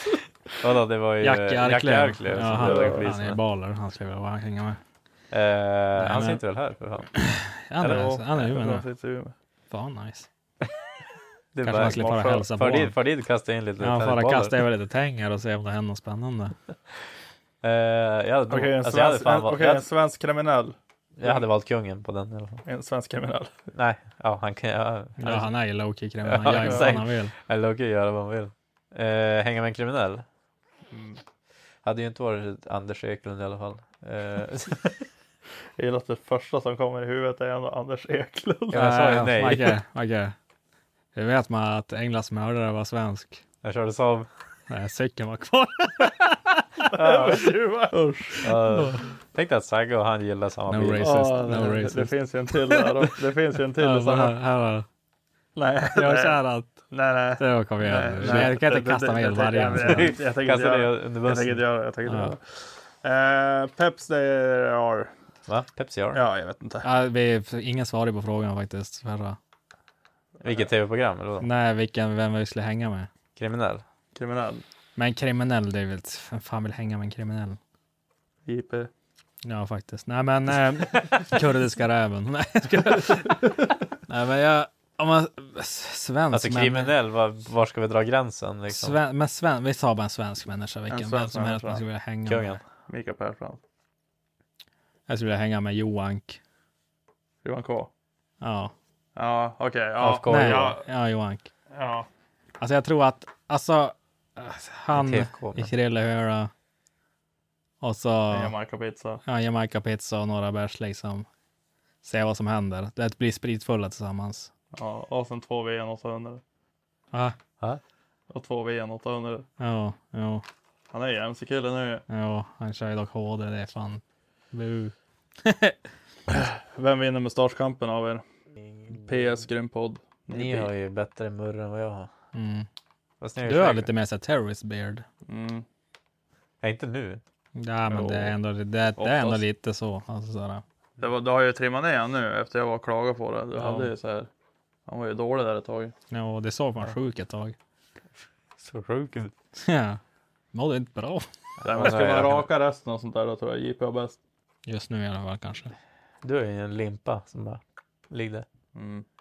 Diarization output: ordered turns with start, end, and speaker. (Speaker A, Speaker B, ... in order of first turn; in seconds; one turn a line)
Speaker A: 0.6-3.4
Speaker B: 1.2-4.8
Speaker C: 2.6-3.0
Speaker A: 5.3-7.1
Speaker B: 6.0-6.4
Speaker B: 7.2-8.8
Speaker A: 7.8-8.1
Speaker C: 7.8-9.3
Speaker B: 9.7-10.3
Speaker A: 11.5-14.6
Speaker B: 11.6-12.9
Speaker C: 11.8-12.5
Speaker B: 13.8-16.5
Speaker A: 17.6-19.9
Speaker C: 18.5-21.4
Speaker A: 21.2-22.6
Speaker C: 22.6-23.5
Speaker A: 23.7-25.5
Speaker B: 25.2-27.3
Speaker A: 26.2-30.2
Speaker C: 26.4-26.9
Speaker C: 30.9-31.2
Speaker A: 31.8-35.0
Speaker C: 35.8-38.9
Speaker A: 38.7-39.8
Speaker B: 38.7-40.3
Speaker B: 41.1-43.4
Speaker A: 43.6-44.3
Speaker B: 44.7-46.9
Speaker C: 46.9-48.5
Speaker A: 47.0-47.4
Speaker A: 48.4-51.6
Speaker B: 48.8-49.0
Speaker B: 50.7-52.1
Speaker C: 51.0-54.4
Speaker B: 53.8-54.9
Speaker C: 55.5-65.1
Speaker B: 55.9-56.8
Speaker B: 57.4-60.1
Speaker A: 58.0-58.5
Speaker A: 59.7-61.6
Speaker B: 62.0-62.3
Speaker A: 65.5-66.2
Speaker C: 66.1-66.9
Speaker B: 66.8-69.4
Speaker A: 70.4-71.5
Speaker C: 70.4-70.7
Speaker B: 71.4-73.1
Speaker A: 73.3-73.8
Speaker C: 74.1-74.6
Speaker B: 75.0-77.6
Speaker C: 78.5-78.9
Speaker B: 79.4-83.5
Speaker B: 84.1-86.9
Speaker A: 86.3-89.0
Speaker B: 88.7-92.6
Speaker C: 90.9-91.8
Speaker A: 92.3-92.6
Speaker C: 92.9-93.6
Speaker B: 95.1-96.4
Speaker C: 97.4-97.9
Speaker B: 98.4-98.7
Speaker C: 99.2-100.8
Speaker A: 100.0-100.7
Speaker B: 100.3-101.5
Speaker C: 101.7-102.1
Speaker B: 102.6-106.5
Speaker A: 104.9-105.7
Speaker B: 107.8-108.5
Speaker C: 108.3-109.2
Speaker B: 109.2-111.2
Speaker B: 112.0-114.5
Speaker C: 114.7-116.4
Speaker C: 118.3-119.5
Speaker B: 119.6-120.4
Speaker C: 120.9-122.0
Speaker B: 122.1-124.0
Speaker B: 124.5-125.8
Speaker C: 126.3-128.2
Speaker A: 128.7-129.4
Speaker C: 128.9-130.7
Speaker A: 130.3-132.1
Speaker B: 132.3-132.7
Speaker A: 133.2-133.9
Speaker B: 133.4-135.0
Speaker C: 135.3-135.6
Speaker A: 136.6-137.2
Speaker B: 137.6-140.6
Speaker C: 137.9-138.3
Speaker C: 139.0-139.4
Speaker C: 141.0-144.3
Speaker B: 143.6-143.9
Speaker C: 144.9-145.9
Speaker B: 146.1-147.6
Speaker A: 148.6-149.3
Speaker B: 149.6-150.0
Speaker B: 150.5-151.2
Speaker A: 151.6-152.5
Speaker C: 151.6-154.2
Speaker B: 154.7-155.7
Speaker A: 156.2-157.6
Speaker A: 158.1-158.4
Speaker C: 158.7-159.0